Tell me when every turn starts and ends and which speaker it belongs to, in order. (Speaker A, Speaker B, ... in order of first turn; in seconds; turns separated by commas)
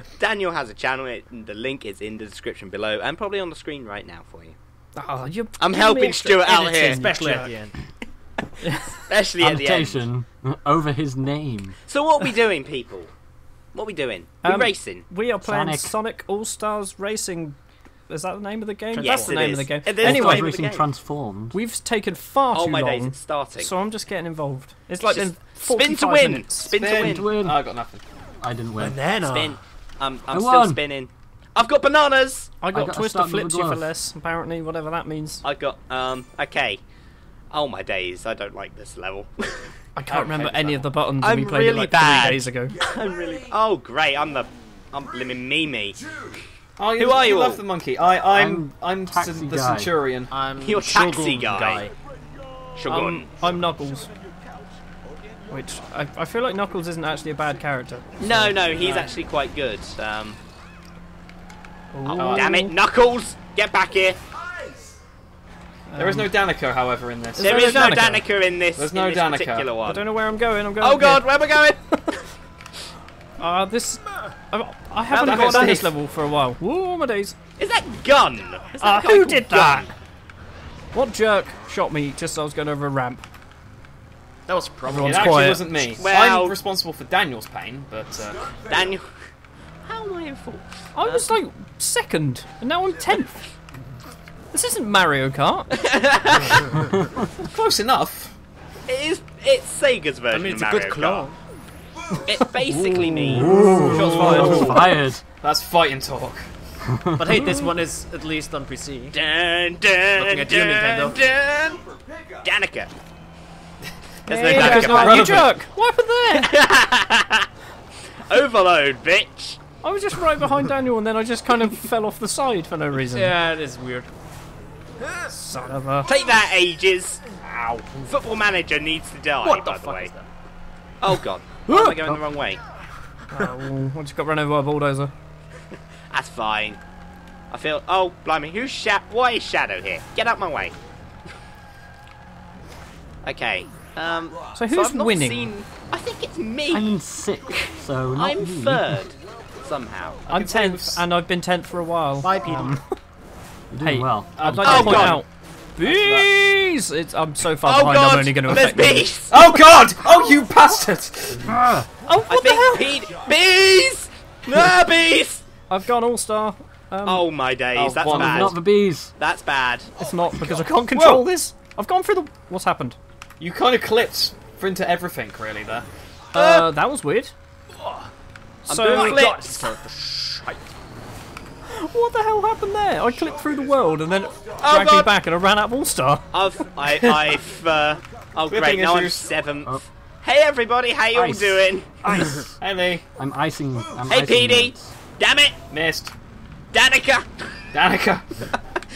Speaker A: 0.2-4.5, Speaker B: 4.9-7.5, Speaker A: 5.6-7.0, Speaker C: 6.6-7.8, Speaker A: 8.9-10.0, Speaker D: 9.4-11.8, Speaker A: 11.9-13.1, Speaker A: 13.7-15.0, Speaker B: 14.4-20.5, Speaker D: 15.4-15.9, Speaker C: 18.9-19.7, Speaker A: 19.0-20.8, Speaker D: 20.0-21.6, Speaker B: 21.5-26.7, Speaker A: 22.5-23.7, Speaker A: 25.1-27.3, Speaker E: 26.7-28.0, Speaker D: 26.9-27.6, Speaker D: 28.4-29.0, Speaker C: 28.8-29.6, Speaker A: 29.2-32.5, Speaker D: 30.3-30.8, Speaker B: 32.6-35.4, Speaker D: 32.7-33.9, Speaker A: 35.4-36.8, Speaker A: 37.5-46.0, Speaker B: 40.0-42.8, Speaker E: 46.8-50.3, Speaker A: 47.0-47.6, Speaker D: 48.3-49.9, Speaker C: 50.3-51.9, Speaker A: 50.6-51.9, Speaker A: 52.8-53.2, Speaker B: 52.9-54.1, Speaker B: 55.5-58.6, Speaker A: 58.2-60.4, Speaker E: 58.8-59.1, Speaker B: 61.9-62.7, Speaker A: 62.0-64.2, Speaker E: 62.1-62.5, Speaker B: 65.9-66.3, Speaker E: 66.0-68.1, Speaker B: 67.4-68.2, Speaker A: 67.4-70.0, Speaker E: 68.8-69.7, Speaker B: 69.8-71.3, Speaker A: 70.8-71.8, Speaker B: 73.4-77.3, Speaker A: 75.1-75.8, Speaker E: 75.1-75.9, Speaker A: 77.6-79.9, Speaker B: 78.8-79.9, Speaker B: 80.9-83.2, Speaker C: 84.5-85.6, Speaker B: 84.9-85.8, Speaker E: 85.0-88.5, Speaker A: 85.5-86.6, Speaker A: 88.6-89.0, Speaker A: 89.8-91.2, Speaker B: 90.9-93.5, Speaker B: 94.5-95.8, Speaker A: 95.8-96.6, Speaker D: 96.8-97.1, Speaker E: 97.4-98.3, Speaker A: 98.9-101.3, Speaker C: 100.3-101.3, Speaker A: 102.2-103.5, Speaker B: 102.7-104.9, Speaker D: 102.7-105.2, Speaker E: 103.5-106.5, Speaker C: 103.7-104.6, Speaker D: 106.8-107.5, Speaker C: 107.2-109.2, Speaker B: 107.3-107.7, Speaker A: 109.1-111.9, Speaker C: 110.1-111.2, Speaker A: 112.4-112.9, Speaker A: 114.2-115.4, Speaker B: 114.3-116.6, Speaker E: 114.5-115.5, Speaker A: 116.3-117.5, Speaker A: 118.3-119.6, Speaker B: 119.8-123.4, Speaker C: 123.0-124.1, Speaker B: 125.3-126.1, Speaker A: 126.0-127.2, Speaker C: 127.4-128.1, Speaker A: 128.1-130.1, Speaker C: 129.4-130.3, Speaker A: 131.0-132.6, Speaker B: 131.7-132.2, Speaker B: 133.3-135.1, Speaker A: 136.1-136.8, Speaker A: 137.5-140.7, Speaker A: 143.2-147.0, Speaker B: 144.5-145.5, Speaker D: 146.7-149.0, Speaker A: 148.1-150.2, Speaker E: 150.2-151.0, Speaker B: 150.3-152.9, Speaker C: 152.2-152.8, Speaker D: 153.7-155.2, Speaker B: 153.8-159.1, Speaker E: 154.4-155.1, Speaker A: 154.4-155.2, Speaker E: 155.8-156.3, Speaker A: 157.6-159.6, Speaker E: 159.3-161.7, Speaker D: 161.4-161.9, Speaker B: 162.0-162.9, Speaker A: 162.3-165.4, Speaker B: 165.7-167.2, Speaker A: 167.0-168.6, Speaker E: 167.7-168.6, Speaker D: 168.1-169.1, Speaker A: 169.2-169.9, Speaker B: 170.0-173.0, Speaker E: 170.9-171.3, Speaker E: 173.4-175.8, Speaker B: 176.3-177.3, Speaker A: 176.4-176.6, Speaker C: 177.8-178.1, Speaker A: 178.7-179.7, Speaker B: 178.7-179.3, Speaker C: 178.9-180.7, Speaker B: 181.7-186.2, Speaker A: 184.6-185.1, Speaker A: 186.3-191.9, Speaker E: 186.9-187.2, Speaker E: 188.5-189.3, Speaker D: 191.1-192.6, Speaker E: 192.6-193.0, Speaker D: 193.1-194.9, Speaker A: 194.1-195.6, Speaker E: 195.7-196.1, Speaker A: 196.7-197.7, Speaker E: 197.7-198.4